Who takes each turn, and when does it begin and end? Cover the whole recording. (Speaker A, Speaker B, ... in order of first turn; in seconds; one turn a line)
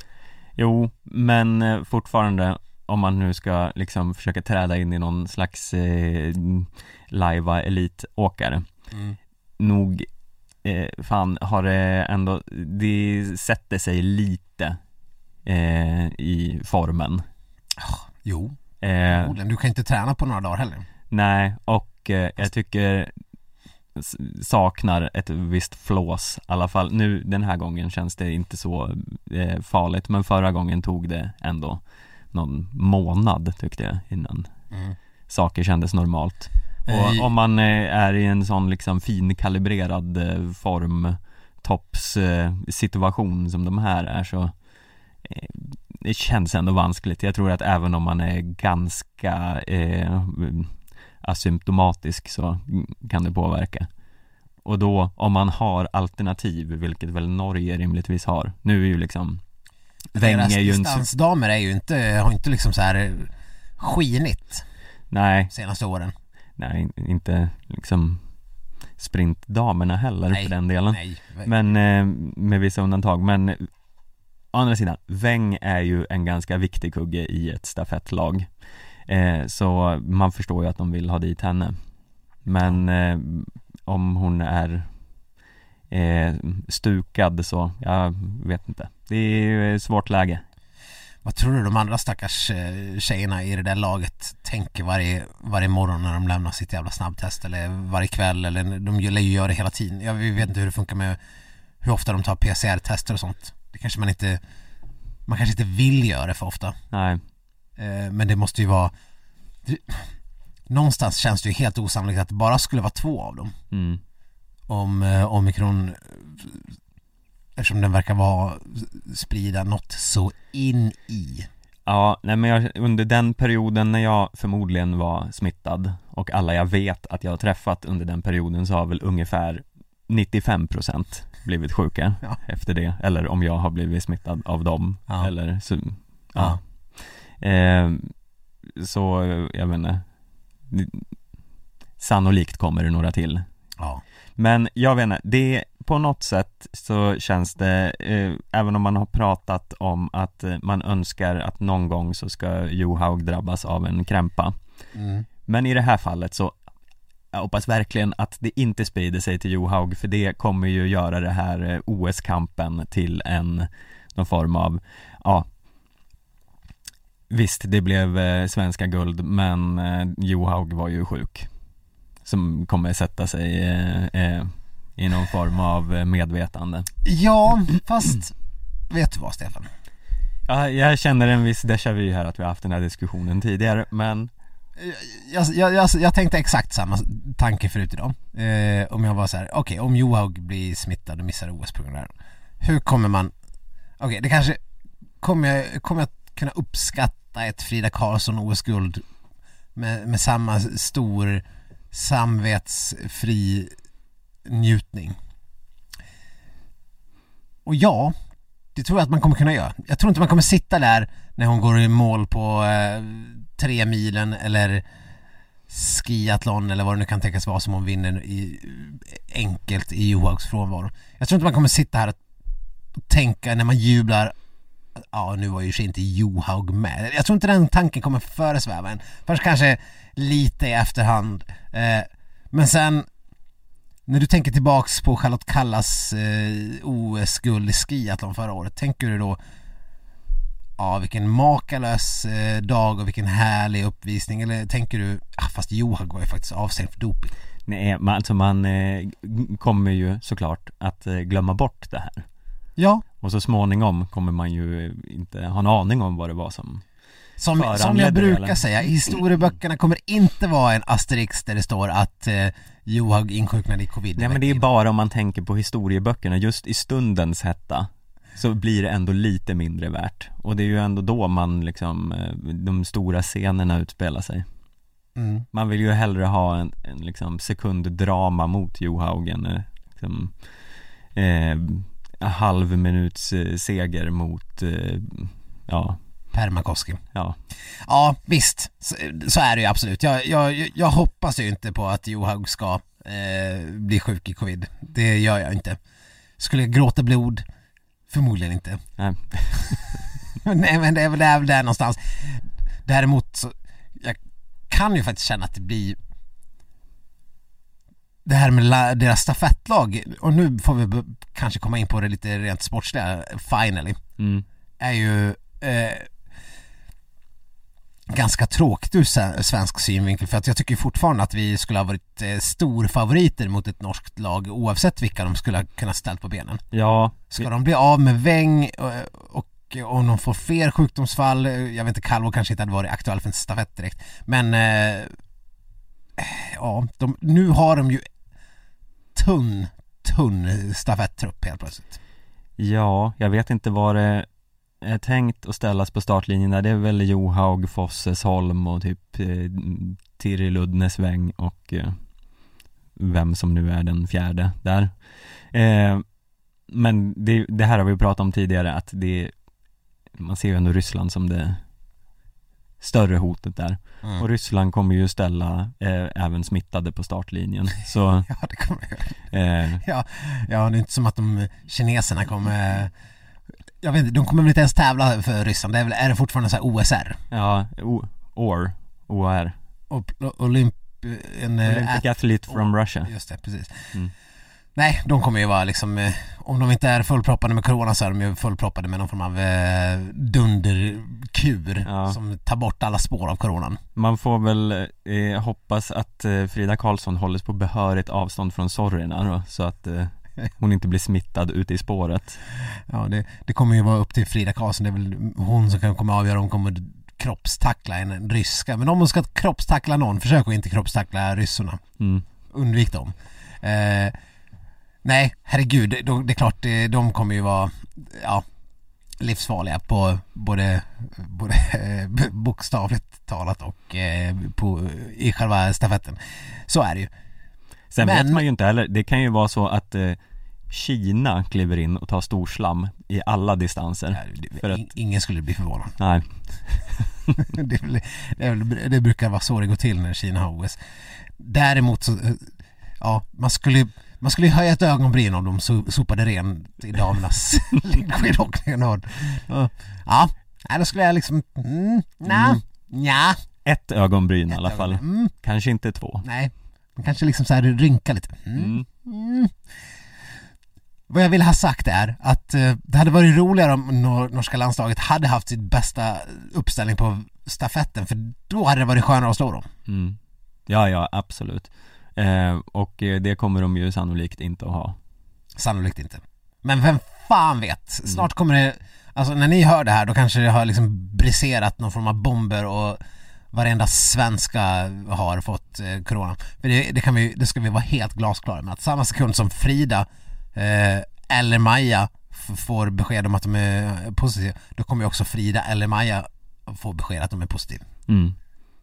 Speaker A: 0.6-8.7
Speaker A: 9.6-10.1
Speaker A: 10.6-14.8
Speaker A: 15.5-17.2
Speaker B: 17.8-18.6
Speaker A: 18.8-19.4
Speaker B: 19.1-20.9
Speaker A: 21.1-23.1
Speaker A: 23.9-34.5
Speaker A: 35.3-44.5
Speaker B: 36.9-37.3
Speaker A: 45.2-53.9
Speaker A: 54.6-59.4
Speaker A: 60.1-61.1
Speaker B: 60.1-64.6
Speaker A: 65.1-65.5
Speaker B: 65.5-66.1
Speaker A: 66.6-68.2
Speaker A: 69.0-73.7
Speaker B: 70.3-71.5
Speaker A: 74.5-78.5
Speaker A: 79.1-81.8
Speaker A: 82.5-84.9
Speaker A: 85.9-90.4
Speaker B: 91.2-101.2
Speaker B: 101.8-104.4
Speaker B: 105.3-106.8
Speaker A: 106.9-107.2
Speaker B: 107.8-108.9
Speaker B: 109.7-110.1
Speaker B: 110.7-113.5
Speaker A: 113.7-114.0
Speaker B: 114.7-116.6
Speaker B: 117.6-121.5
Speaker A: 121.9-136.6
Speaker A: 137.4-138.1
Speaker A: 138.7-140.0
Speaker A: 140.7-141.1
Speaker A: 142.0-143.5
Speaker A: 144.4-154.6
Speaker B: 154.9-155.3
Speaker A: 155.5-156.6
Speaker A: 157.3-165.5
Speaker A: 167.3-171.5
Speaker A: 172.2-176.9
Speaker B: 177.1-178.3
Speaker B: 178.9-179.7
Speaker A: 180.5-184.3
Speaker B: 184.8-193.3
Speaker B: 194.0-194.6
Speaker B: 195.2-199.0
Speaker B: 199.8-203.7
Speaker B: 204.5-205.2
Speaker B: 207.7-208.2
Speaker B: 208.8-214.8
Speaker B: 215.7-222.2
Speaker B: 223.1-224.3
Speaker B: 225.0-233.1
Speaker B: 234.1-239.4
Speaker B: 240.8-247.3
Speaker A: 247.7-252.3
Speaker B: 252.8-253.1
Speaker A: 253.2-256.8
Speaker B: 257.4-264.6
Speaker A: 257.6-258.6
Speaker A: 264.2-274.5
Speaker B: 275.2-275.5
Speaker A: 275.5-280.3
Speaker A: 281.1-286.0
Speaker B: 286.3-287.0
Speaker B: 287.9-295.8
Speaker B: 296.4-297.4
Speaker B: 298.1-298.8
Speaker A: 299.0-300.0
Speaker B: 299.6-299.9
Speaker B: 300.4-304.2
Speaker B: 304.7-306.0
Speaker B: 308.2-314.0
Speaker A: 314.2-314.4
Speaker B: 314.8-316.1
Speaker B: 318.1-326.6
Speaker A: 326.7-327.5
Speaker B: 327.3-335.1
Speaker B: 336.2-338.1
Speaker B: 339.1-342.0
Speaker A: 342.6-344.3
Speaker A: 344.8-352.0
Speaker A: 353.0-354.9
Speaker A: 355.5-356.0
Speaker A: 356.7-359.3
Speaker A: 360.1-361.6
Speaker A: 362.8-368.3
Speaker B: 368.3-369.2
Speaker A: 369.3-369.8
Speaker B: 369.8-372.9
Speaker B: 373.8-377.2
Speaker A: 377.3-379.6
Speaker B: 379.9-383.9
Speaker A: 381.6-383.1
Speaker B: 384.8-393.8
Speaker A: 391.9-392.2
Speaker A: 394.0-402.4
Speaker B: 402.9-411.8
Speaker A: 412.0-412.2
Speaker B: 412.5-414.1
Speaker B: 415.0-418.4
Speaker B: 419.2-427.1
Speaker A: 427.9-430.2
Speaker B: 428.0-428.4
Speaker A: 430.7-434.9
Speaker B: 434.1-436.0
Speaker A: 436.0-437.1
Speaker B: 437.4-440.8
Speaker B: 441.4-442.5
Speaker B: 443.0-453.4
Speaker A: 452.3-452.6
Speaker A: 453.6-456.2
Speaker B: 454.5-455.3
Speaker B: 456.2-459.6
Speaker A: 458.6-458.9
Speaker B: 461.1-469.7
Speaker A: 469.9-475.0
Speaker B: 475.6-483.0
Speaker B: 483.5-497.9
Speaker A: 498.1-498.4